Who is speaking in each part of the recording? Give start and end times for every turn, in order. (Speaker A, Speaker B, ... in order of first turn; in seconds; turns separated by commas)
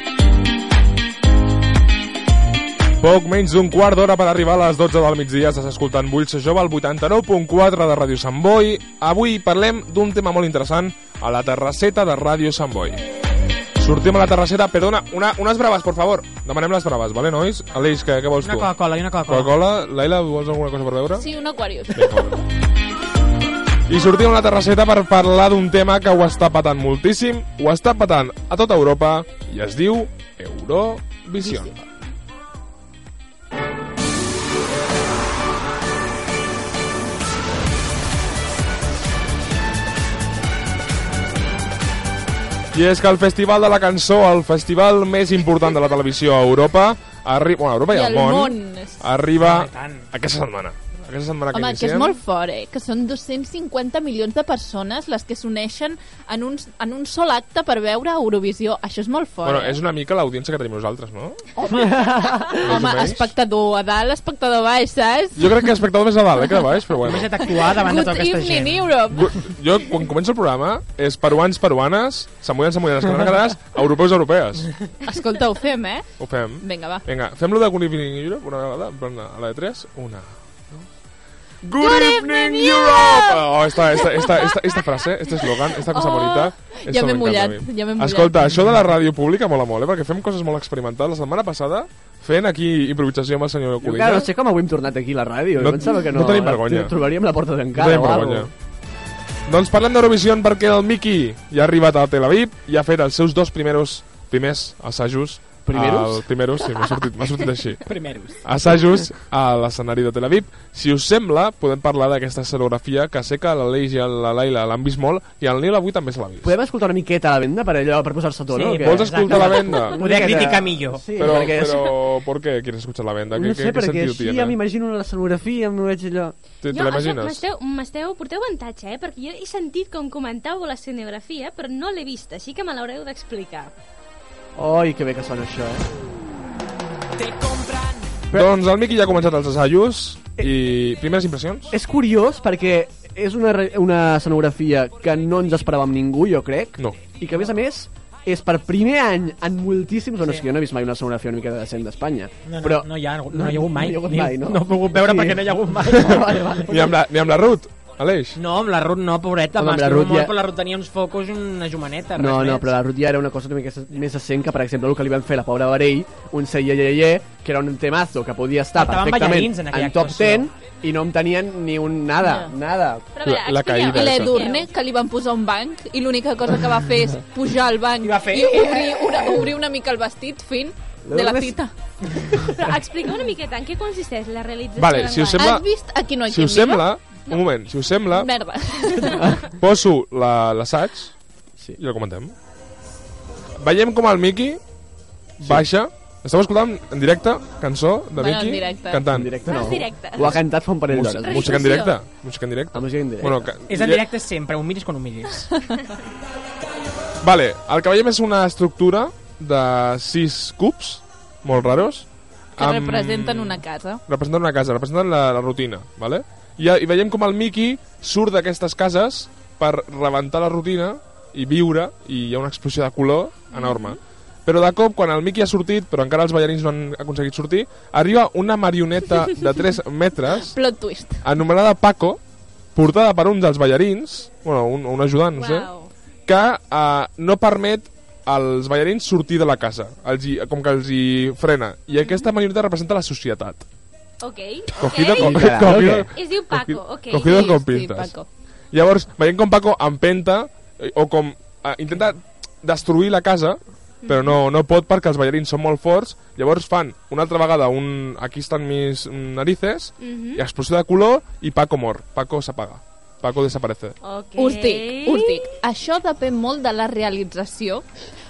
Speaker A: 3.0-13.0, Speaker A: 13.8-21.3, Speaker B: 18.4-19.5, Speaker C: 21.1-22.3, Speaker A: 21.9-22.4, Speaker A: 23.9-31.7, Speaker A: 42.7-52.2, Speaker C: 47.9-49.1, Speaker B: 49.4-50.1, Speaker C: 51.5-59.8, Speaker A: 59.4-61.5, Speaker C: 61.6-65.6, Speaker A: 62.6-63.3, Speaker A: 65.4-67.7, Speaker B: 67.1-68.8, Speaker C: 67.4-69.4, Speaker A: 69.1-74.7, Speaker C: 75.0-76.1, Speaker A: 76.2-80.8, Speaker C: 76.6-77.0, Speaker A: 81.6-94.3, Speaker C: 81.8-84.5, Speaker C: 85.4-88.4, Speaker D: 93.8-98.5, Speaker A: 95.6-97.0, Speaker A: 97.7-98.5, Speaker A: 99.5-107.9, Speaker D: 105.6-106.8, Speaker B: 107.9-108.4, Speaker A: 108.4-116.5, Speaker D: 116.4-122.0, Speaker B: 118.6-121.0, Speaker A: 118.7-124.6, Speaker D: 123.3-126.4, Speaker A: 126.6-127.4, Speaker E: 126.7-133.7, Speaker D: 134.6-135.9, Speaker A: 138.3-141.7, Speaker D: 141.7-157.0, Speaker B: 152.5-156.4, Speaker A: 155.9-158.4, Speaker B: 158.4-162.6, Speaker D: 159.6-160.4, Speaker D: 162.2-173.1, Speaker B: 168.8-170.4, Speaker C: 172.2-172.5, Speaker E: 173.2-174.7, Speaker A: 173.2-174.4, Speaker C: 173.7-181.7, Speaker B: 178.0-179.2, Speaker D: 181.1-181.6, Speaker E: 182.5-185.5, Speaker A: 184.8-185.7, Speaker C: 185.4-186.9, Speaker A: 186.3-188.3, Speaker C: 188.1-189.2, Speaker A: 189.6-191.2, Speaker A: 191.8-192.3, Speaker A: 193.6-194.6, Speaker A: 195.4-199.4, Speaker D: 195.4-195.7, Speaker C: 198.2-199.1, Speaker D: 199.1-201.6, Speaker E: 199.4-200.4, Speaker A: 200.2-204.1, Speaker E: 201.2-201.9, Speaker C: 201.3-201.9, Speaker D: 202.7-203.6, Speaker B: 203.8-205.5, Speaker A: 207.2-230.6, Speaker C: 212.6-214.0, Speaker C: 230.4-231.2, Speaker A: 231.2-232.2, Speaker A: 232.8-235.7, Speaker E: 235.3-235.9, Speaker A: 236.3-243.7, Speaker E: 244.2-247.4, Speaker A: 244.8-248.1, Speaker D: 245.2-246.1, Speaker C: 247.3-248.3, Speaker A: 248.7-264.0, Speaker E: 254.1-254.4, Speaker E: 260.0-260.4, Speaker E: 264.0-265.4, Speaker C: 264.4-267.9